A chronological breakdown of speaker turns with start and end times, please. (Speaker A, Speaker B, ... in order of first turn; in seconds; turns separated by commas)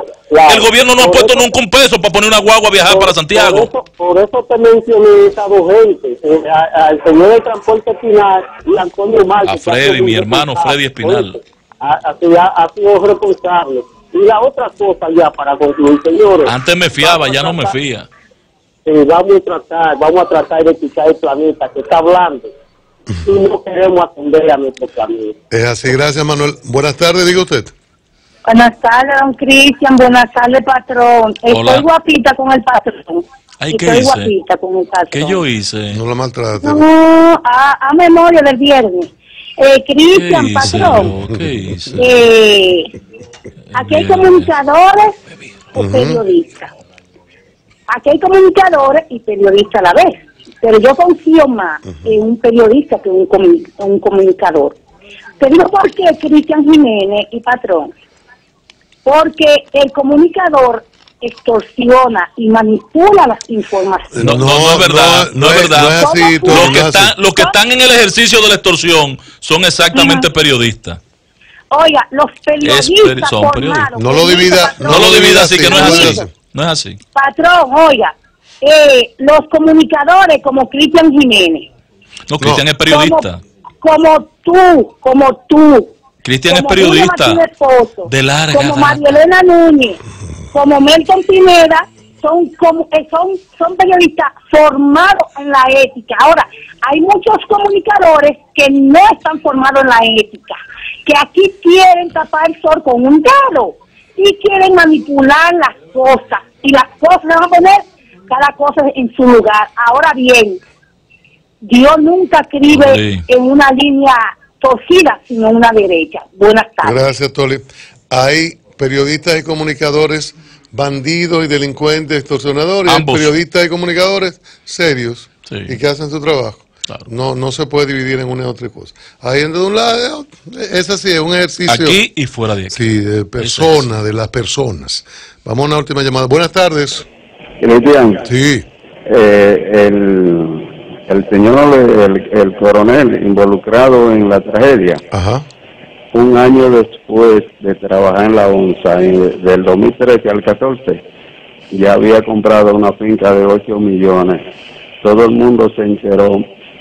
Speaker A: 0.3-1.5, Speaker B: 0.5-3.7, Speaker A: 2.8-17.7, Speaker B: 9.4-11.4, Speaker B: 16.4-18.1, Speaker A: 18.8-22.5, Speaker A: 23.2-25.4, Speaker C: 25.5-27.7, Speaker D: 28.4-35.4, Speaker B: 31.5-31.9, Speaker B: 33.6-34.3, Speaker B: 35.1-36.0, Speaker C: 35.9-36.8, Speaker D: 36.6-41.1, Speaker B: 40.1-42.1, Speaker C: 40.7-42.0, Speaker D: 42.0-42.9, Speaker B: 43.7-44.5, Speaker D: 43.7-45.2, Speaker D: 45.7-46.7, Speaker C: 45.8-46.2, Speaker D: 47.9-54.8, Speaker D: 55.4-57.9, Speaker D: 59.0-64.2, Speaker C: 64.1-67.1, Speaker B: 64.2-71.0, Speaker D: 65.9-67.5, Speaker D: 69.9-70.3, Speaker D: 71.7-76.2, Speaker B: 72.6-73.9, Speaker C: 74.0-76.3, Speaker B: 74.8-77.0, Speaker D: 77.1-81.7, Speaker B: 82.3-83.4, Speaker C: 82.4-82.6, Speaker D: 82.9-83.3, Speaker D: 83.8-85.9, Speaker B: 86.2-87.4, Speaker D: 86.5-90.0, Speaker B: 88.0-89.2, Speaker D: 90.5-110.6, Speaker D: 111.6-117.0, Speaker B: 112.7-113.2, Speaker C: 116.8-132.0, Speaker B: 122.8-123.3, Speaker B: 125.5-125.8, Speaker B: 131.7-132.8, Speaker C: 132.7-137.1, Speaker B: 133.4-133.8, Speaker E: 137.6-138.2, Speaker C: 138.2-138.7, Speaker E: 139.1-145.0, Speaker C: 145.1-145.4, Speaker E: 146.1-151.0, Speaker E: 151.7-154.4, Speaker E: 155.0-156.5